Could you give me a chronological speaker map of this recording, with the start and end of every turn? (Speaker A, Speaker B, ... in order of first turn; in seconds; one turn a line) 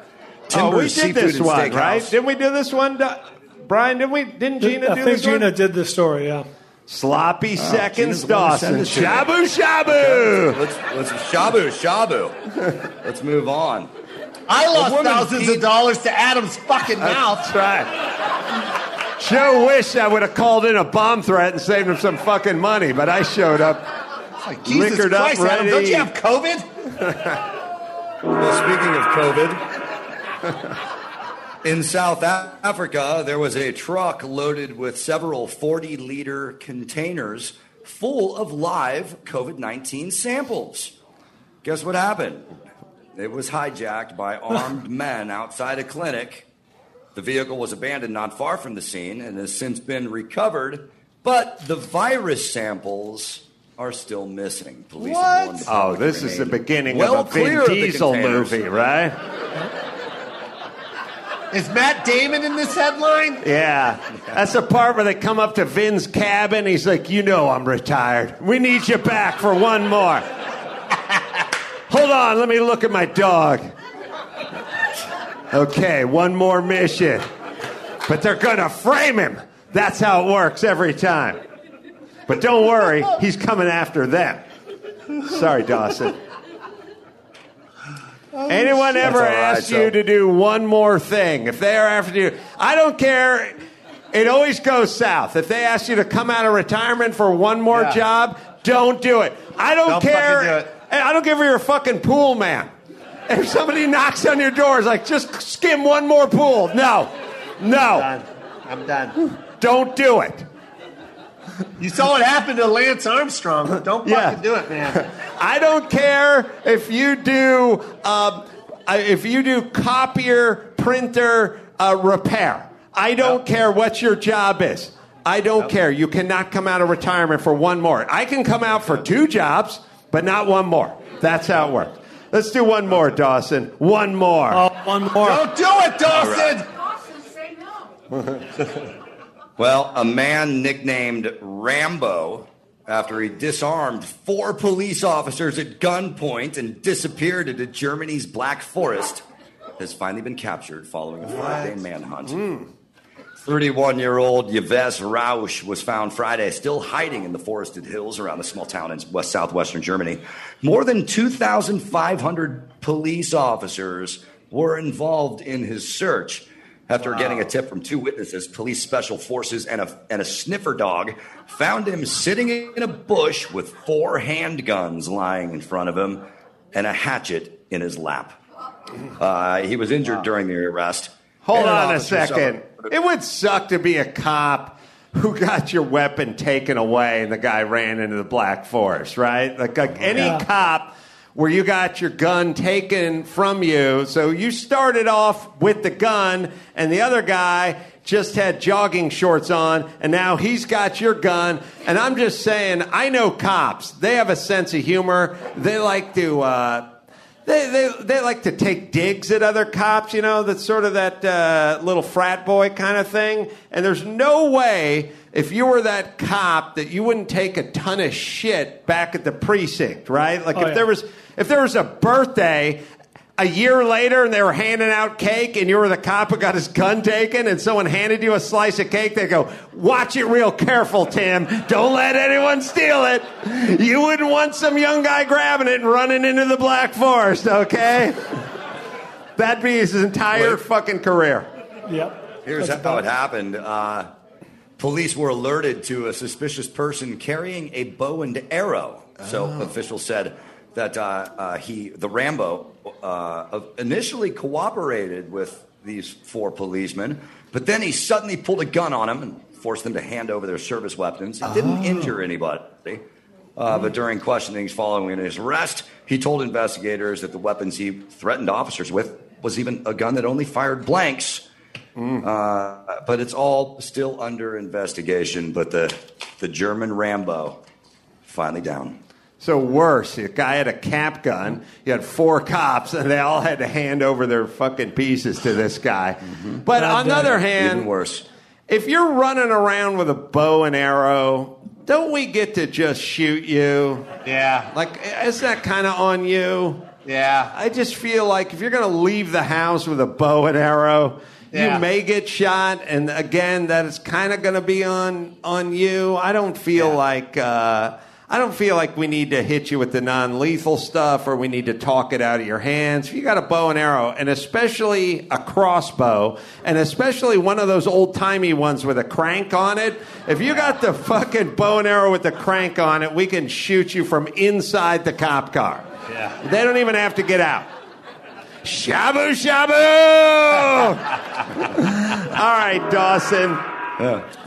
Speaker A: 0.5-2.1
Speaker B: 0.5-5.5
Speaker C: 4.6-6.5
Speaker B: 6.9-10.6
Speaker A: 7.6-9.3
Speaker A: 9.9-13.9
Speaker D: 14.5-17.5
Speaker A: 14.7-15.6
Speaker B: 17.0-17.9
Speaker B: 19.2-23.8
Speaker D: 24.4-26.6
Speaker B: 24.6-26.1
Speaker B: 27.0-27.4
Speaker A: 28.3-29.6
Speaker A: 31.6-41.0
Speaker A: 41.6-42.6
Speaker A: 43.1-46.5
Speaker A: 47.1-58.6
Speaker D: 55.0-55.7
Speaker B: 55.7-59.1
Speaker D: 61.5-63.4
Speaker B: 63.4-70.2
Speaker B: 71.9-73.7
Speaker B: 75.5-77.2
Speaker B: 78.1-81.4
Speaker B: 82.3-84.4
Speaker B: 85.2-86.2
Speaker B: 88.5-93.6
Speaker A: 89.0-89.9
Speaker B: 94.1-102.7
Speaker D: 97.7-98.0
Speaker D: 99.9-100.7
Speaker B: 103.3-108.1
Speaker D: 107.8-109.2
Speaker B: 109.2-110.5
Speaker D: 111.8-115.0
Speaker B: 114.0-134.7
Speaker C: 134.5-135.4
Speaker D: 135.2-136.7
Speaker A: 136.1-136.6
Speaker A: 139.6-149.2
Speaker A: 149.8-152.4
Speaker B: 152.3-152.7
Speaker A: 153.4-178.4
Speaker A: 179.2-182.5
Speaker B: 181.4-206.9
Speaker C: 190.2-190.4
Speaker B: 207.5-222.8
Speaker C: 220.6-220.8
Speaker B: 223.4-238.4
Speaker B: 239.4-241.5
Speaker C: 241.9-243.1
Speaker A: 242.4-244.1
Speaker A: 244.8-263.0
Speaker A: 263.6-271.4
Speaker B: 272.0-272.2
Speaker A: 272.2-277.6
Speaker A: 278.2-279.0
Speaker B: 279.4-287.9
Speaker A: 286.3-288.2
Speaker C: 286.8-287.3
Speaker B: 288.7-294.1
Speaker D: 294.2-294.7
Speaker B: 294.7-296.8
Speaker D: 297.1-297.5
Speaker B: 297.5-325.9
Speaker D: 301.5-301.9
Speaker D: 326.1-326.4
Speaker B: 326.4-327.7
Speaker B: 328.6-333.6
Speaker A: 334.0-334.2